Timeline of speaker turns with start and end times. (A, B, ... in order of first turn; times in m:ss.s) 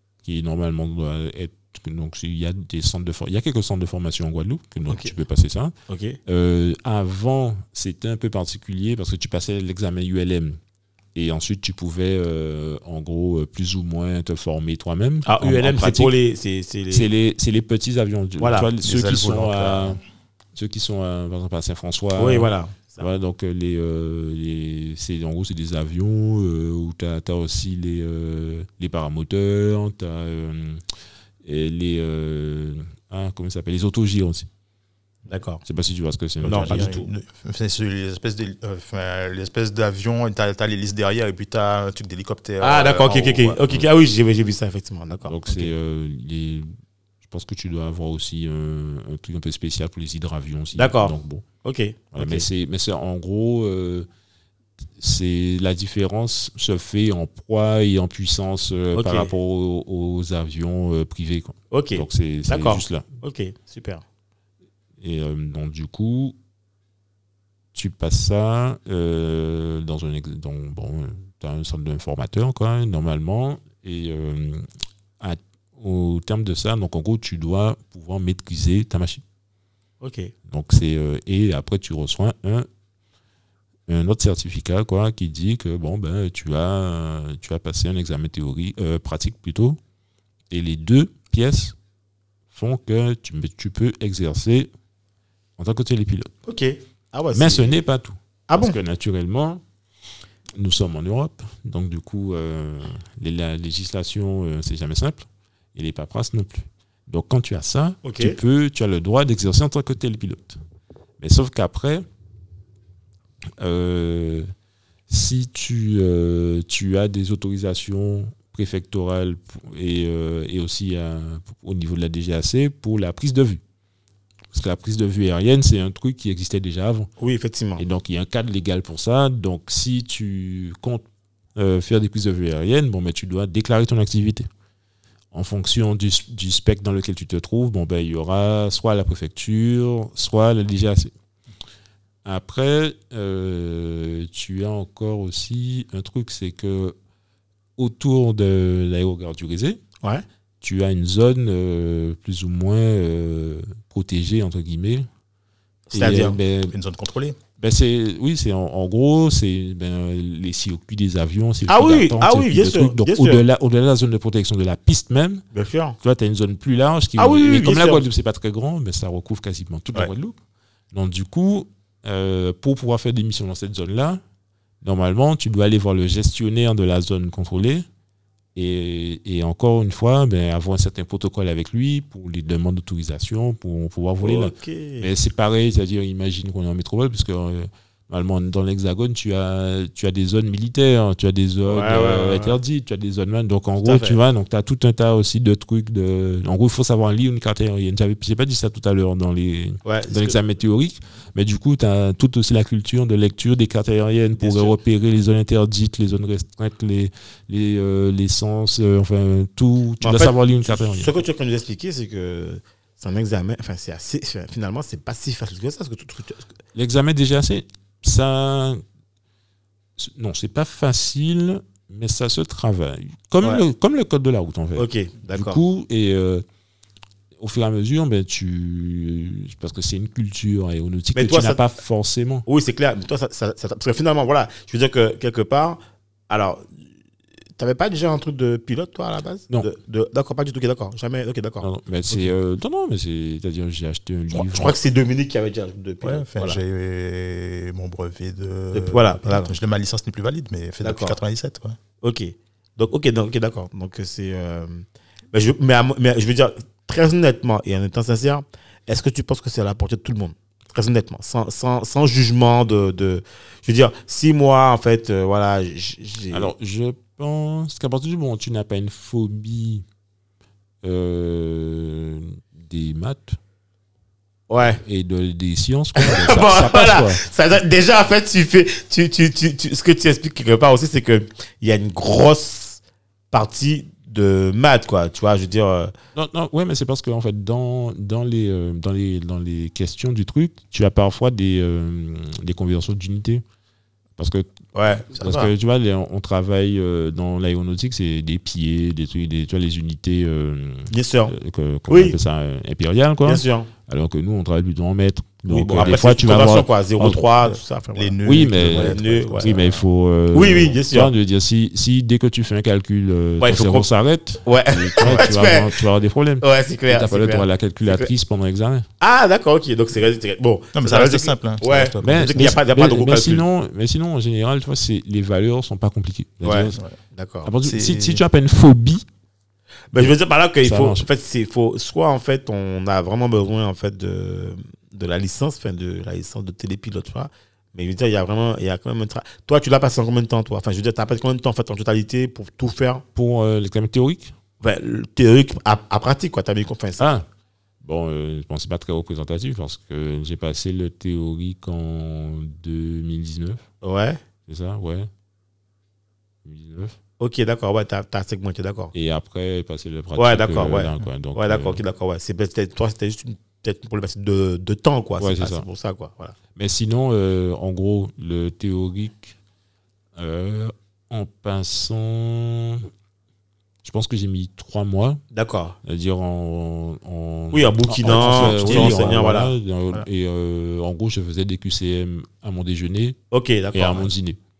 0:00.2-0:05.7 A
0:05.9-0:06.2 B
0:06.3-0:10.6 A
0:11.2-0:16.1 A
0:15.2-0:17.1 B
0:16.9-0:20.0 A
0:18.4-0:18.7 B
0:18.8-0:20.0 C
0:20.6-0:30.8 A
0:22.2-0:23.1 B
0:31.4-0:34.5 A
0:35.3-0:35.6 B
0:35.6-0:36.9 A
0:36.4-0:37.1 B
0:36.4-0:43.6 C
0:42.6-0:45.7 B
0:45.3-0:46.7 A
0:47.2-0:51.4 A
0:50.8-0:52.5 B
0:52.1-0:54.1 A
0:55.0-1:03.0 A
0:58.9-0:59.3 B
1:01.7-1:04.0 B
1:05.0-1:06.4 A
1:07.8-1:14.7 A
1:15.2-1:19.2 A
1:20.0-1:20.3 B
1:20.5-1:22.7 A
1:23.9-1:29.8 A
1:30.5-1:31.8 A
1:32.5-1:34.7 A
1:35.6-1:36.3 A
1:36.5-1:37.7 B
1:37.3-1:39.6 A
1:38.5-1:38.8 B
1:40.6-1:50.6 A
1:48.0-1:48.4 B
1:51.2-1:52.0 A
1:53.6-1:54.5 A
1:55.1-2:03.6 A
2:04.5-2:07.1 A
2:07.2-2:07.8 B
2:07.8-2:11.0 A
2:11.6-2:14.5 A
2:15.3-2:21.1 A
2:22.2-2:27.0 A
2:27.8-2:29.8 A
2:30.6-2:35.1 A
2:35.9-2:36.4 B
2:35.9-2:36.8 A
2:36.7-2:37.4 C
2:37.6-2:45.4 A
2:41.7-2:43.4 B
2:45.5-2:46.0 B
2:46.0-2:50.4 A
2:47.2-2:48.0 B
2:50.9-2:54.2 A
2:54.8-2:57.8 A
2:58.6-3:31.2 A
3:04.2-3:05.1 B
3:11.7-3:12.6 B
3:13.8-3:14.2 B
3:19.8-3:20.4 B
3:24.4-3:24.8 B
3:30.0-3:36.5 B
3:36.8-3:38.8 A
3:40.0-3:46.4 A
3:44.8-3:45.6 B
3:47.4-3:52.4 A
3:51.2-3:51.7 B
3:52.5-3:56.7 B
3:57.6-4:02.3 B
4:01.6-4:04.8 A
4:04.3-4:06.6 B
4:06.0-4:11.8 C
4:08.7-4:09.5 B
4:10.8-4:11.2 B
4:12.0-4:26.5 B
4:26.3-4:29.8 A
4:30.8-4:33.4 A
4:34.5-4:34.8 B
4:34.8-4:37.2 A
4:36.0-4:42.8 B
4:43.3-4:45.9 B
4:46.2-4:53.4 A
4:54.2-4:54.5 A
4:54.7-4:55.5 B
4:55.1-5:07.2 A
5:00.9-5:01.3 B
5:01.9-5:02.2 B
5:03.2-5:03.7 B
5:05.5-5:08.2 B
5:05.7-5:06.0 C
5:07.5-5:09.9 C
5:08.2-5:18.9 A
5:08.7-5:09.6 B
5:10.3-5:11.1 B
5:13.4-5:13.9 B
5:14.4-5:15.7 B
5:16.4-5:18.1 B
5:19.0-5:23.4 B
5:20.8-5:22.6 C
5:22.0-5:26.8 A
5:26.4-5:27.5 B
5:27.4-5:29.0 A
5:27.6-5:28.2 C
5:29.9-5:43.0 B
5:30.6-5:31.0 A
5:43.2-5:44.3 A
5:44.6-5:47.1 B
5:47.0-5:47.3 A
5:47.8-5:53.6 A
5:53.8-5:54.2 B
5:54.5-5:55.1 A
5:56.4-5:57.0 A
5:57.2-5:58.9 B
5:58.9-6:01.8 A
6:00.2-6:06.4 B
6:05.2-6:05.7 A
6:06.6-6:09.4 A
6:10.2-6:12.9 A
6:13.8-6:15.2 A
6:15.3-6:15.8 B
6:15.8-6:23.2 A
6:17.5-6:19.5 B
6:18.2-6:19.2 C
6:23.3-6:24.1 B
6:23.7-6:24.4 A